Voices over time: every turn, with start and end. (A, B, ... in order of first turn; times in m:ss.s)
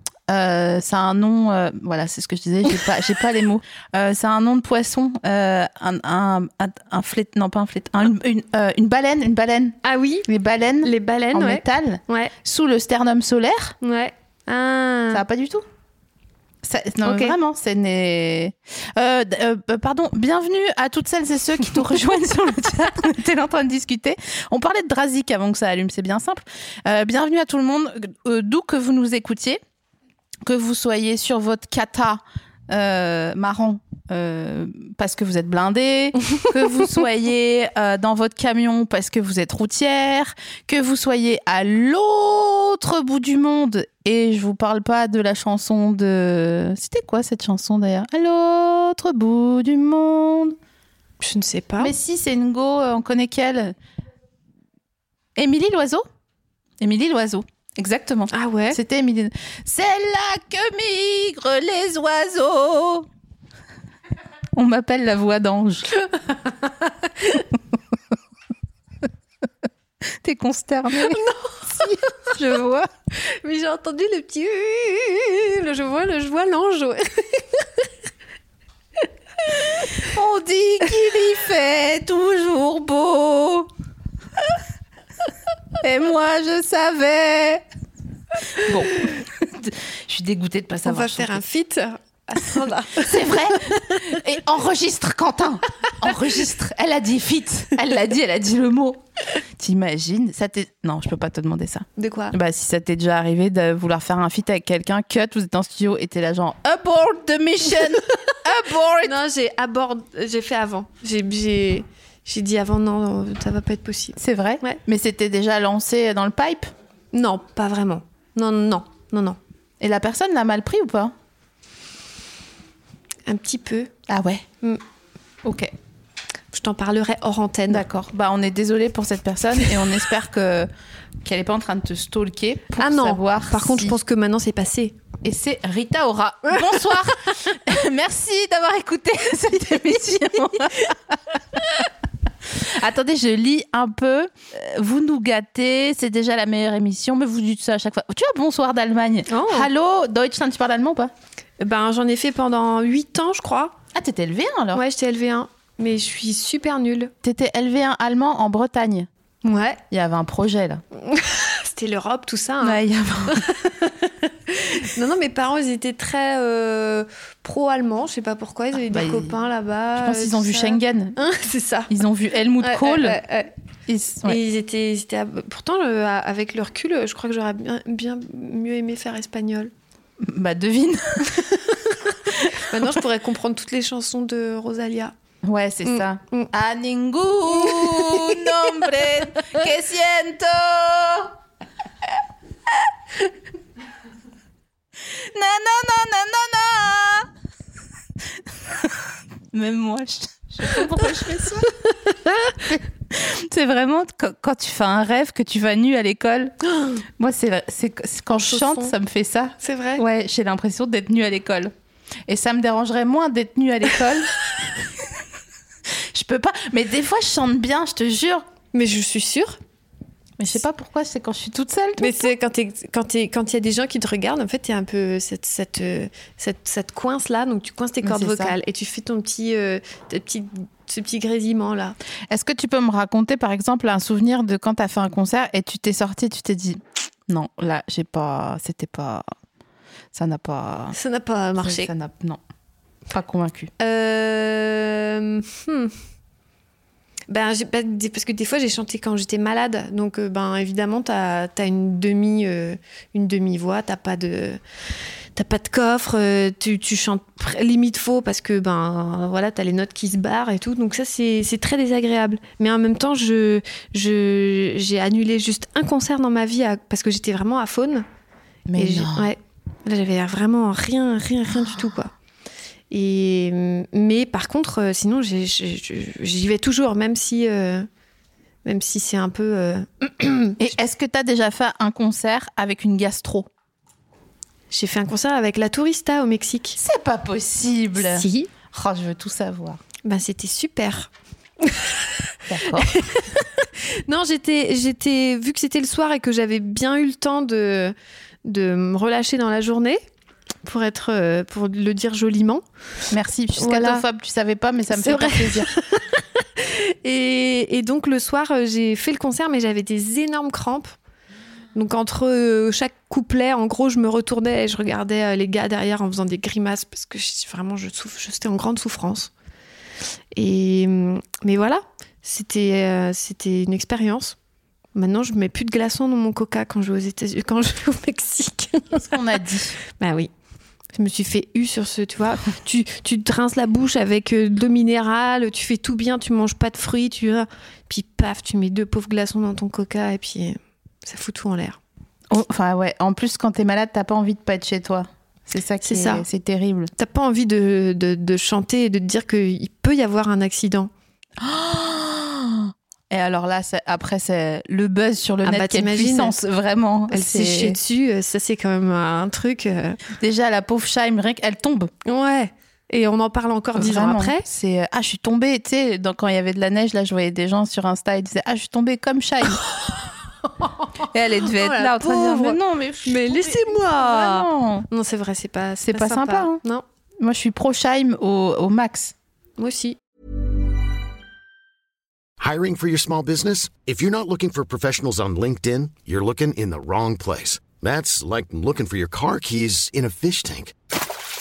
0:00.3-0:13.8 A
0:09.8-0:10.3 B
0:10.8-0:12.3 B
0:13.8-0:15.2 B
0:15.1-0:15.6 A
0:16.6-0:29.6 A
0:17.0-0:17.4 B
0:30.4-0:50.6 A
0:51.2-0:51.9 B
0:51.8-0:53.7 A
0:55.4-0:56.0 A
0:56.8-1:03.1 A
0:58.3-0:58.8 B
1:04.5-1:05.9 A
1:06.6-1:07.4 B
1:10.1-1:11.2 A
1:11.0-1:12.3 B
1:12.2-1:12.9 A
1:13.2-1:17.7 B
1:19.8-1:23.7 A
1:25.8-1:27.6 A
1:28.5-1:31.4 A
1:30.8-1:34.2 B
1:32.9-1:39.0 A
1:39.5-1:49.2 A
1:42.0-1:42.4 B
1:49.0-1:54.8 B
1:54.2-1:56.7 A
1:57.1-1:59.4 B
1:59.8-2:01.1 A
2:03.3-2:03.9 B
2:04.1-2:04.4 A
2:05.4-2:05.7 A
2:06.5-2:07.8 B
2:07.7-2:10.7 A
2:11.2-2:14.0 A
2:12.8-2:15.0 B
2:15.2-2:21.6 A
2:22.4-2:31.1 A
2:29.3-2:29.7 B
2:31.6-2:33.8 B
2:33.9-2:34.8 A
2:34.7-2:37.1 B
2:37.2-2:39.1 A
2:39.4-2:39.8 B
2:39.9-2:40.8 A
2:40.9-2:51.9 B
2:42.6-2:43.5 A
2:48.9-2:49.3 A
2:50.0-2:51.2 A
2:51.9-2:53.2 A
2:52.6-2:53.5 B
2:53.9-2:54.4 A
2:54.2-2:59.7 B
3:00.2-3:01.8 A
3:01.8-3:05.1 B
3:02.3-3:02.8 A
3:05.4-3:11.3 A
3:05.8-3:06.5 B
3:07.5-3:08.5 B
3:15.1-3:17.3 A
3:18.4-3:21.7 A
3:21.9-3:22.5 B
3:22.6-3:26.6 A
3:26.7-3:27.0 B
3:27.2-3:31.7 A
3:28.3-3:28.9 B
3:29.6-3:30.0 B
3:32.3-3:35.1 A
3:36.1-3:38.5 A
3:38.7-3:39.6 B
3:40.4-3:42.3 A
3:42.0-3:52.0 B
3:48.0-3:48.6 A
3:52.3-3:59.2 A
4:00.1-4:01.0 A
4:00.9-4:01.9 B
4:01.6-4:02.4 A
4:03.1-4:03.7 A
4:03.8-4:05.9 B
4:07.3-4:14.6 B
4:15.3-4:28.0 B
4:28.7-4:29.3 A
4:28.8-4:32.1 B
4:32.9-4:37.9 B
4:38.6-4:40.6 B
4:40.6-4:43.5 A
4:44.7-4:46.8 B
4:46.8-4:49.8 A
4:48.0-4:48.5 B
4:50.0-4:52.1 B
4:52.5-4:52.9 A
4:52.7-4:57.9 B
4:58.4-5:00.0 B
5:00.6-5:02.6 B
5:03.1-5:05.7 A
5:03.6-5:04.0 B
5:04.9-5:10.9 B
5:11.7-5:19.3 B
5:20.3-5:24.4 B
5:24.9-5:29.2 B
5:28.9-5:29.8 A
5:29.9-5:30.3 B
5:30.9-5:41.8 B
5:42.3-5:46.9 A
5:45.8-5:46.2 B
5:47.0-5:50.9 B
5:51.4-5:57.8 A
5:55.4-5:56.4 B
5:57.1-6:00.0 B
6:00.1-6:01.9 A
6:02.0-6:04.4 B
6:03.7-6:09.6 A
6:10.6-6:16.8 B
6:11.1-6:14.9 A
6:15.8-6:16.6 A
6:17.2-6:19.1 A
6:19.6-6:20.0 B
6:22.4-6:30.7 C